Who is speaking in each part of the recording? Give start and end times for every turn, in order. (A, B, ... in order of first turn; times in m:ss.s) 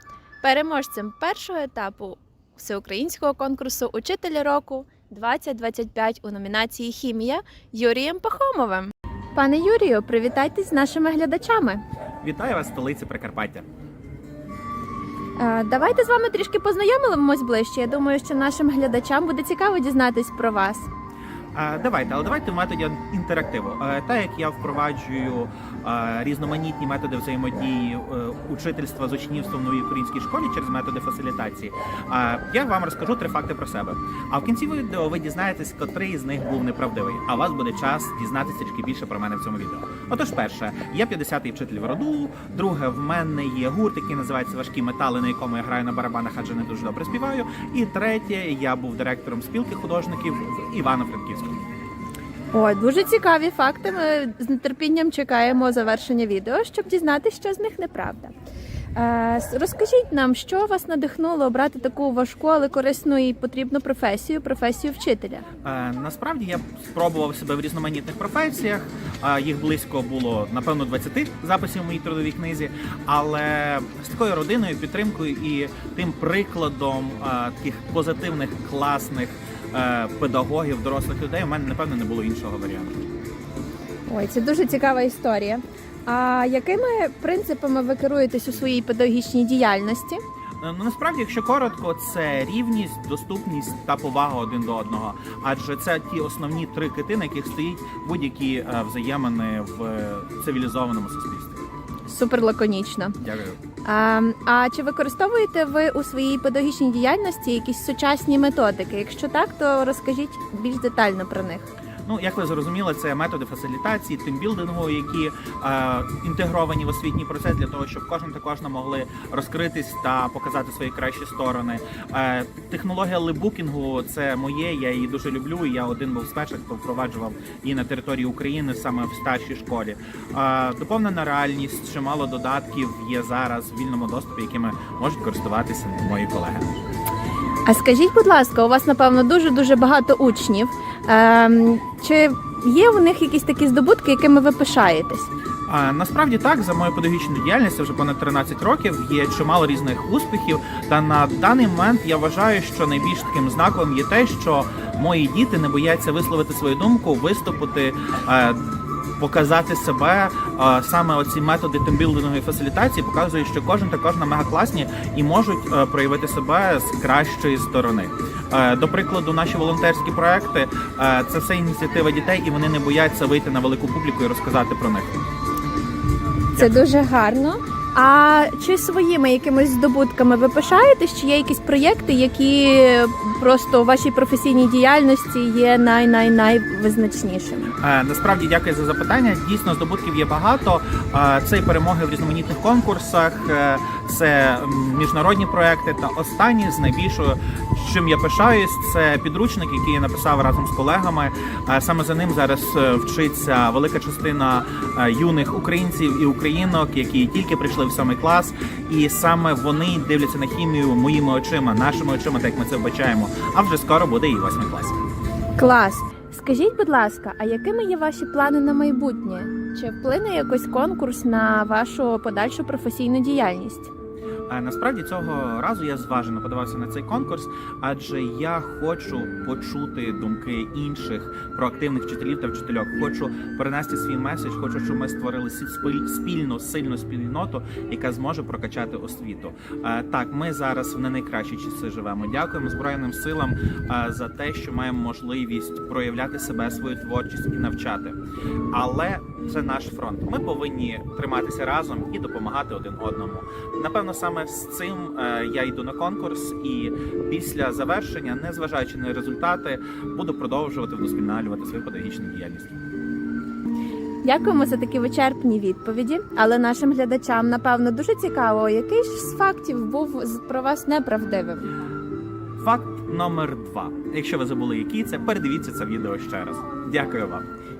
0:00.4-0:11.8 A
0:12.2-0:13.6 B
0:15.4-0:20.9 A
0:21.5-0:51.6 B
0:52.5-0:58.3 A
0:59.0-1:05.4 A
1:05.6-1:23.0 B
1:24.1-1:30.2 A
1:30.6-1:41.6 B
1:42.1-1:43.2 A
1:43.2-1:43.6 B
1:43.8-1:51.7 A
1:52.1-2:16.8 B
2:17.6-2:25.3 A
2:25.7-2:38.6 B
2:39.2-2:55.2 B
2:56.5-3:07.7 A
3:07.8-3:35.0 B
3:35.6-3:43.9 A
3:44.5-4:08.2 B
4:08.7-4:22.8 B
4:24.2-4:31.7 A
4:32.6-4:37.4 B